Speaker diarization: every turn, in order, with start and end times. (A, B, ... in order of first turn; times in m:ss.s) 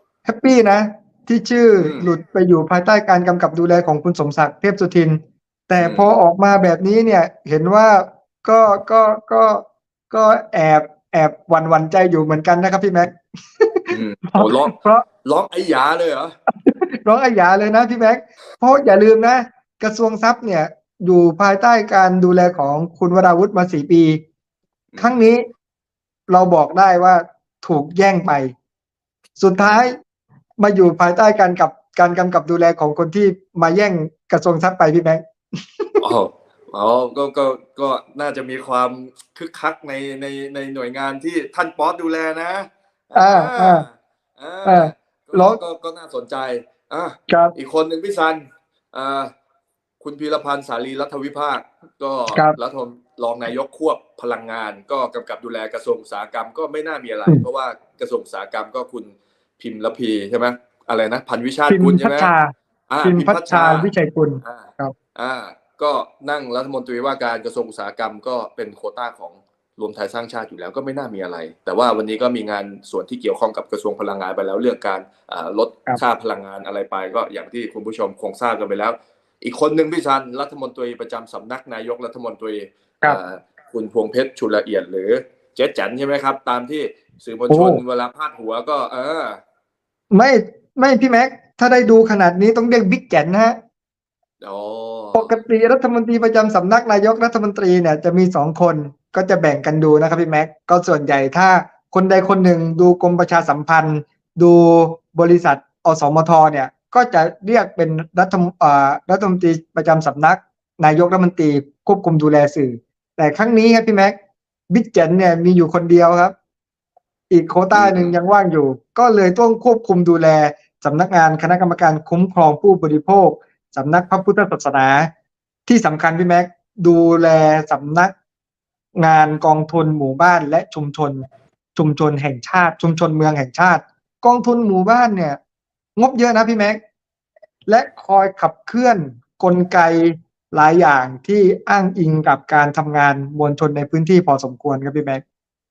0:00.2-0:15.0 A
0:01.8-0:02.0 B
0:05.8-0:06.1 B
0:13.9-0:16.4 B
0:16.6-0:24.2 A
0:24.9-0:25.2 B
0:25.0-0:25.4 A
0:26.3-0:28.5 A
0:29.4-0:29.9 A
0:29.6-0:29.8 B
0:30.6-0:36.0 A
0:36.0-0:49.3 B
0:43.1-0:43.8 A
0:44.6-0:45.6 A
0:47.3-0:47.5 A
0:50.0-1:02.3 B
1:01.7-1:02.5 A
1:02.9-1:03.9 B
1:03.0-1:04.9 A
1:04.4-1:29.4 B
1:27.5-1:27.8 A
1:30.1-1:33.6 A
1:34.4-1:35.4 B
1:35.1-1:54.2 A
1:54.7-1:56.3 A
1:57.3-2:05.1 A
1:57.7-1:58.2 B
2:05.7-2:08.1 A
2:08.9-2:15.4 A
2:16.0-2:16.8 A
2:17.7-2:25.2 A